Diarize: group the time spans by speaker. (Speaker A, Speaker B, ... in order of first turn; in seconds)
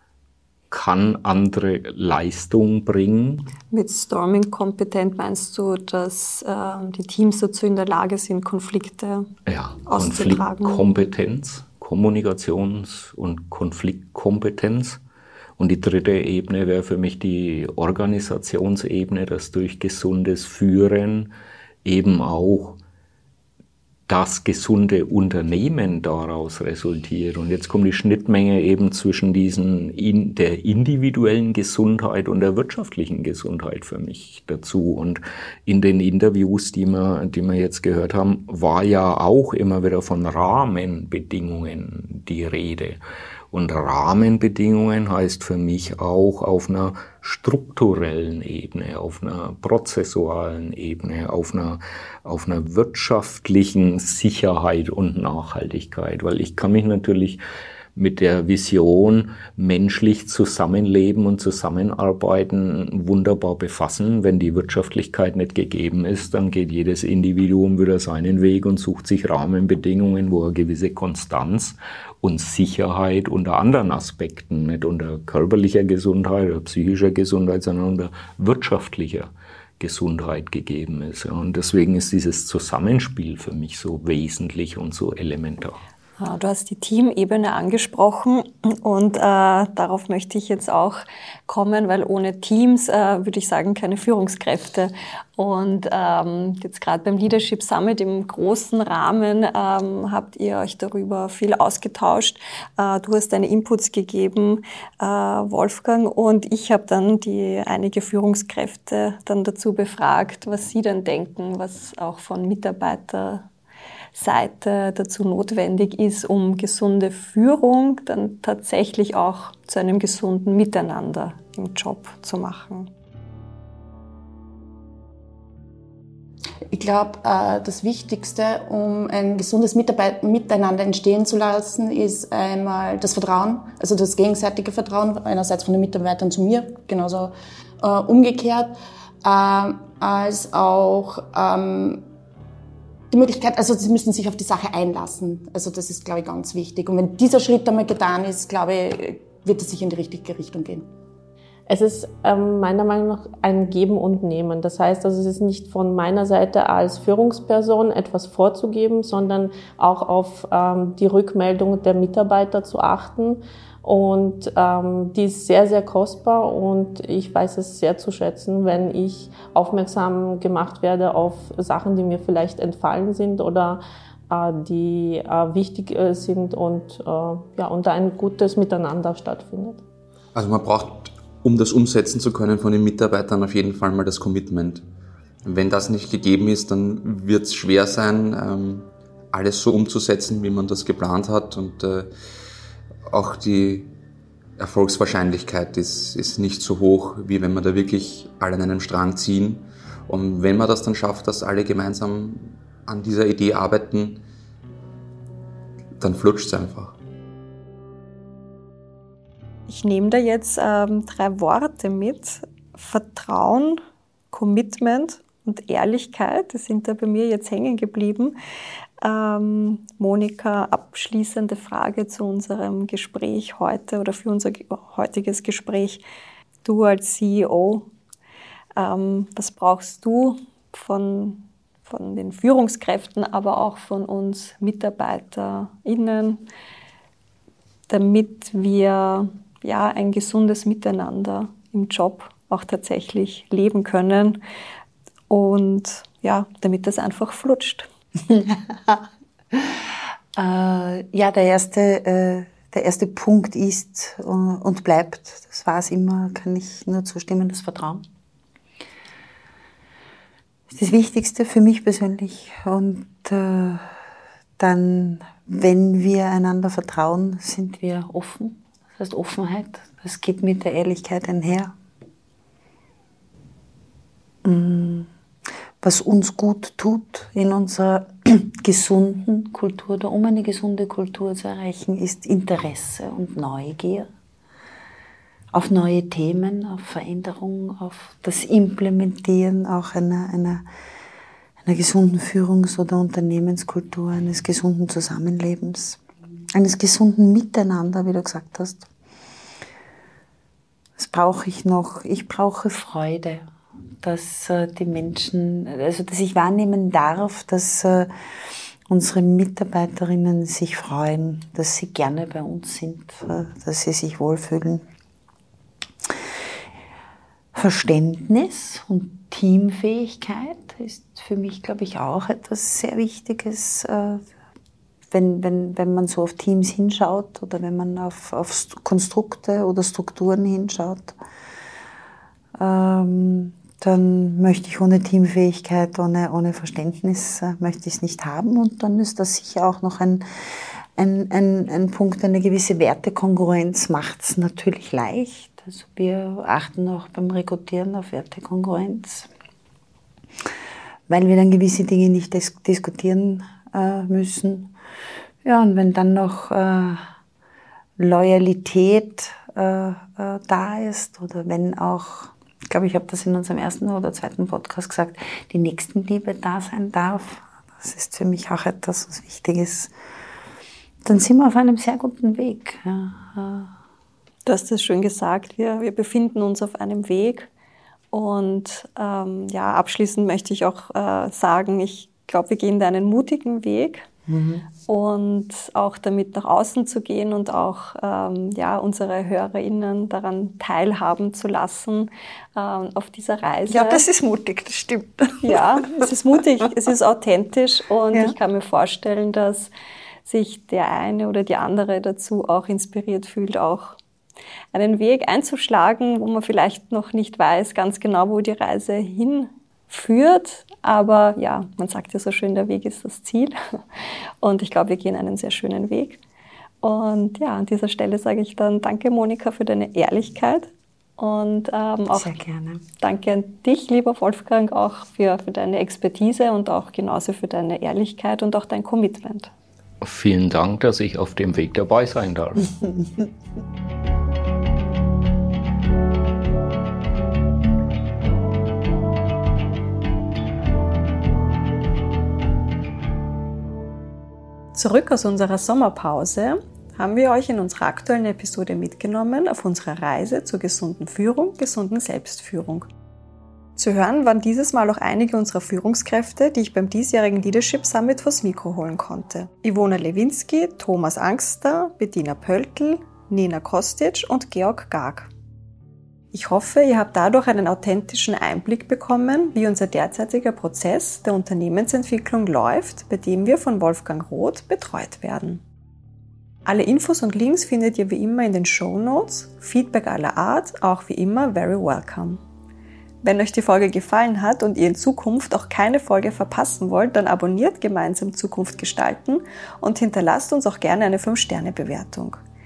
Speaker A: 0.7-3.5, 9.4-15.0, 15.6-21.3, 21.8-22.8, 24.1-43.0, 43.5-57.4, 58.0-85.8, 430.0-432.9
Speaker B: 3.7-9.3, 9.9-10.9, 86.2-113.5, 114.1-122.9, 209.7-213.8, 214.3-218.4, 219.0-226.0, 226.6-227.9, 228.8-236.4, 237.9-244.4, 245.3-247.9, 374.4-377.5, 378.1-384.1, 384.9-394.1, 395.4-399.7, 400.2-404.0, 404.7-413.5, 414.4-416.2, 416.8-422.4, 423.0-429.5, 444.7-452.9, 453.8-465.3, 466.3-475.6, 476.6-482.4, 483.2-492.4
Speaker C: 126.7-142.1, 143.1-150.9
Speaker D: 151.7-179.8
Speaker E: 180.3-184.9, 185.4-192.1, 193.1-193.9, 194.6-204.2, 206.0-207.0
Speaker F: 248.3-258.1, 260.7-263.9, 264.6-271.7, 274.4-275.1, 275.8-284.1, 285.5-290.6, 291.6-296.0, 296.6-298.9, 301.0-303.4, 304.0-308.1, 308.9-314.8, 317.5-324.3, 325.1-331.1, 332.6-340.2, 340.9-349.3, 351.1-354.7, 355.4-357.0, 358.0-369.9, 371.0-373.7, 384.3-384.6, 393.7-396.1, 422.1-422.8